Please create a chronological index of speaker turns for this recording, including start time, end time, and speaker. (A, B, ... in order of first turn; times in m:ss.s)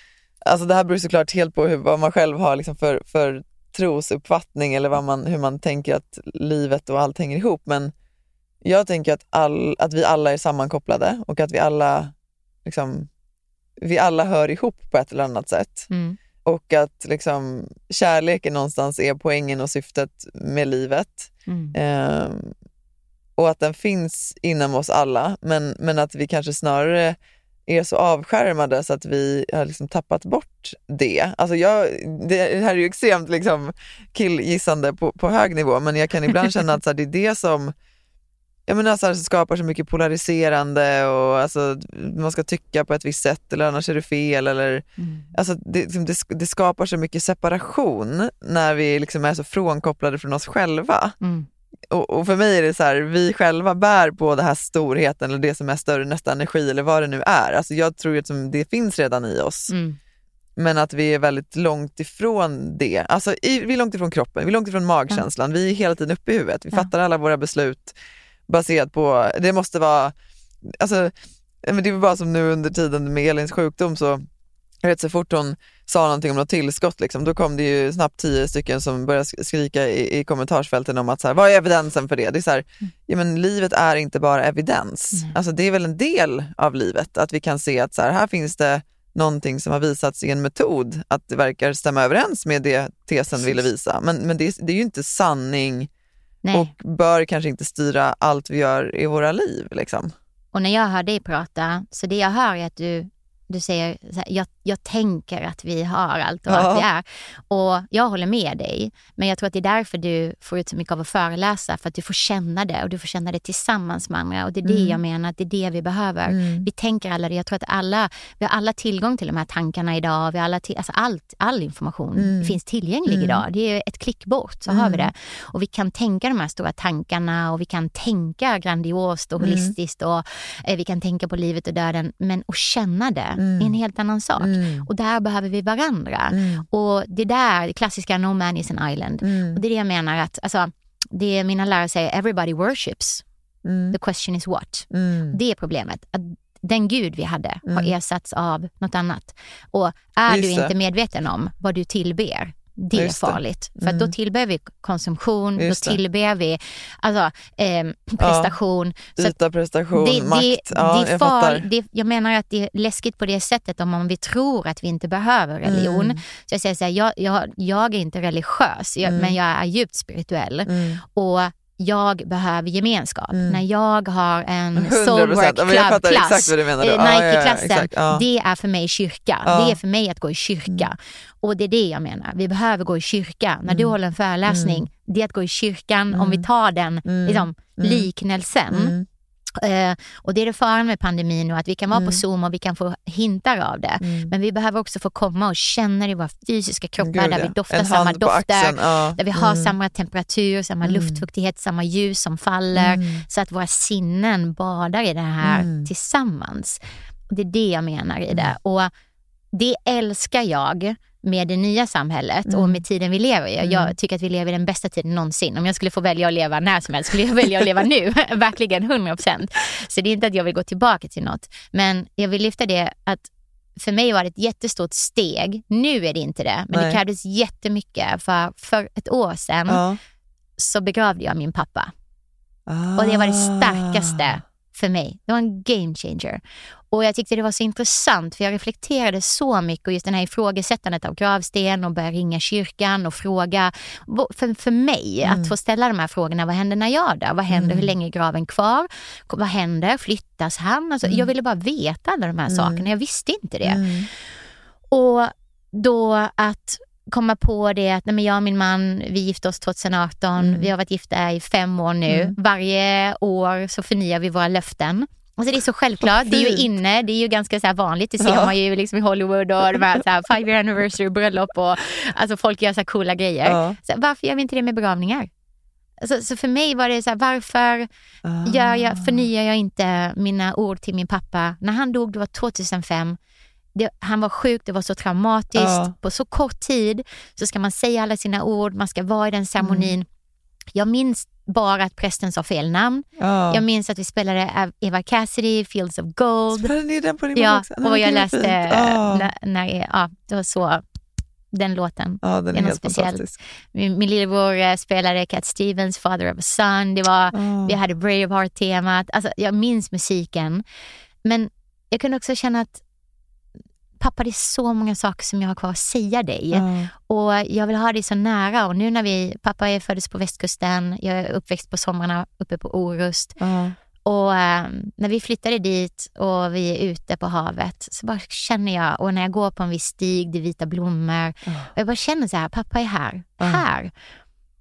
0:00.4-0:07.9 A
0:08.6-0:12.1 A
0:12.6-0:13.1 A
0:13.8-0:15.9 A
0:15.9-0:16.2 B
0:16.4-0:22.5 A
0:21.5-0:21.7 B
0:23.4-0:37.7 A
0:38.7-0:51.2 A
0:45.0-0:45.3 B
0:51.2-0:51.5 B
0:51.9-0:59.7 A
0:59.7-1:00.0 B
1:00.6-1:07.9 A
1:08.5-1:14.2 A
1:14.8-1:35.9 A
1:36.4-1:36.7 B
1:36.5-1:40.1 A
1:40.5-2:23.2 B
1:46.5-1:46.9 A
1:54.6-1:55.0 A
1:56.3-1:56.7 A
2:02.2-2:03.4 A
2:04.7-2:05.1 A
2:09.4-2:09.7 A
2:13.4-2:13.7 A
2:14.4-2:14.9 A
2:16.3-2:16.6 A
2:19.2-2:19.6 A
2:23.6-2:24.0 A
2:23.9-2:39.3 B
2:24.9-2:25.4 A
2:27.6-2:27.9 A
2:30.3-2:30.7 A
2:32.9-2:34.1 A
2:35.6-2:36.0 A
2:38.2-2:38.5 A
2:39.2-2:41.6 A
2:39.9-3:08.9 B
2:45.6-2:46.2 A
2:49.0-2:49.4 A
2:50.6-2:51.0 A
2:53.3-2:53.6 A
2:54.8-2:58.2 A
2:59.4-2:59.8 A
3:03.7-3:03.9 A
3:04.5-3:04.9 A
3:06.1-3:06.4 A
3:07.0-3:08.1 A
3:08.7-3:09.0 A
3:09.6-3:28.9 B
3:11.9-3:12.2 A
3:14.0-3:14.3 A
3:17.0-3:19.7 A
3:20.8-3:21.2 A
3:22.7-3:23.2 A
3:25.4-3:25.9 A
3:29.5-3:49.8 B
3:32.5-3:32.8 A
3:33.6-3:33.9 A
3:46.7-3:47.0 A
3:49.7-3:50.0 A
3:50.6-3:51.9 B
3:52.7-3:54.4 A
3:53.0-4:13.8 B
4:05.2-4:05.5 A
4:07.5-4:07.9 A
4:11.0-4:11.3 A
4:12.5-4:12.9 A
4:13.6-4:14.1 A
4:14.9-4:35.3 B
4:20.4-4:20.7 A
4:22.1-4:22.3 A
4:26.0-4:26.6 A
4:28.2-4:28.5 A
4:33.4-4:33.8 A
4:36.0-4:37.9 B
4:38.2-4:39.3 A
4:38.4-4:43.2 B
4:43.7-4:50.1 B
4:45.5-4:45.9 A
4:49.6-4:49.9 A
4:50.7-4:56.7 B
4:53.2-4:53.6 A
4:56.6-4:59.3 A
4:57.3-5:00.8 B
5:01.5-5:10.6 B
5:02.2-5:03.3 A
5:07.3-5:07.8 A
5:11.2-5:12.8 B
5:14.0-5:23.4 B
5:16.5-5:16.9 A
5:23.4-5:23.8 A
5:24.0-5:33.9 B
5:31.4-5:31.7 A
5:33.4-5:33.6 A